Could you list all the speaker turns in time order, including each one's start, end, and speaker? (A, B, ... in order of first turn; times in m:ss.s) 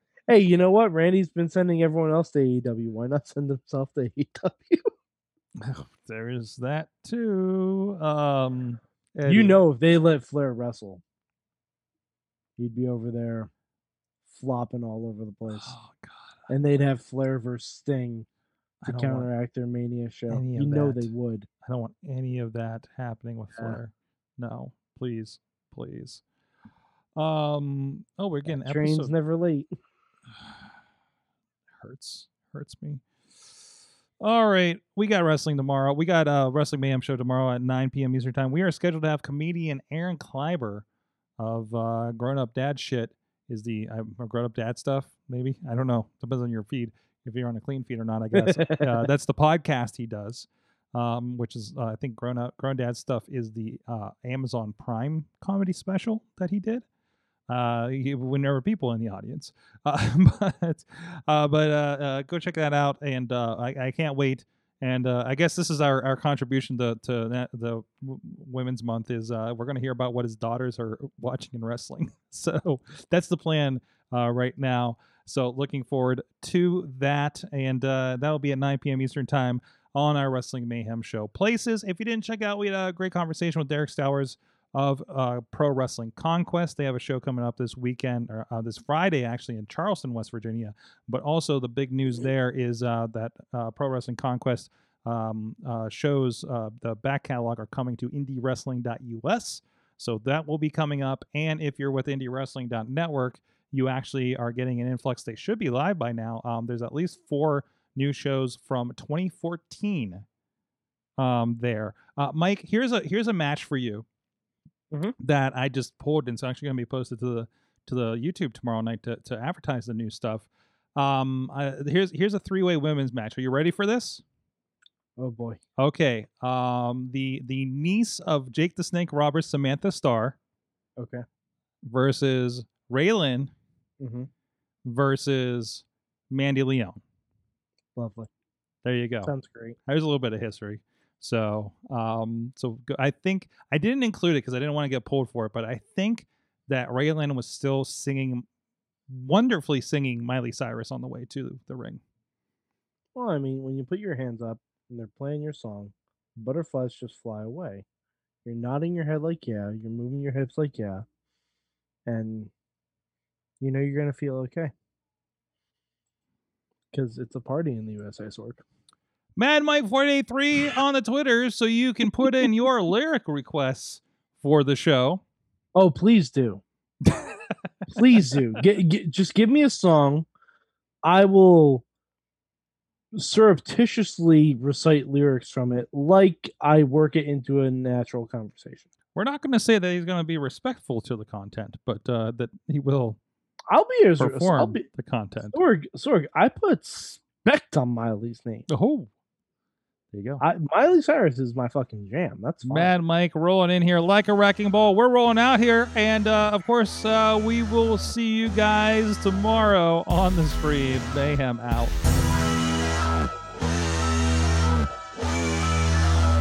0:00.3-0:04.9 A
0:05.6-0:09.6 B
0:09.3-0:11.0 A
0:12.6-0:13.5 A
0:14.3-0:15.8 A
0:15.5-0:16.5 B
0:16.5-0:18.3 A
0:18.8-0:19.3 B
0:18.9-0:21.5 A
0:20.3-0:26.2 B
0:27.2-0:29.1 B
0:28.5-0:29.7 A
0:30.3-0:30.6 B
0:31.8-0:33.0 B
0:34.2-0:40.8 B
0:41.4-0:56.8 B
0:48.3-0:49.0 A
0:57.5-1:50.2 B
1:51.2-1:54.0 B
1:55.2-2:04.2 B
2:05.2-2:05.6 A
2:05.8-2:10.4 B
2:11.0-2:11.2 A
2:11.8-2:13.5 B
2:14.0-2:14.3 A
2:14.8-2:17.0 B
2:18.0-2:18.3 A
2:18.8-2:19.3 B
2:19.2-2:19.8 A
2:19.9-2:28.5 B
2:29.1-2:32.0 B
2:33.2-2:37.8 A
2:38.4-2:41.0 A
2:42.1-2:42.5 A
2:43.6-2:44.7 A
2:46.9-2:48.6 A
2:49.4-2:55.2 B
2:55.8-2:56.6 A
2:57.0-2:58.4 B
2:57.9-3:00.3 A
3:01.0-3:01.8 A
3:03.1-3:08.9 A
3:09.2-3:13.2 B
3:13.7-3:14.9 A
3:14.2-3:15.6 B
3:15.5-3:18.7 A
3:18.7-3:19.1 B
3:20.1-3:20.4 B
3:20.4-3:22.9 A
3:22.6-3:32.0 B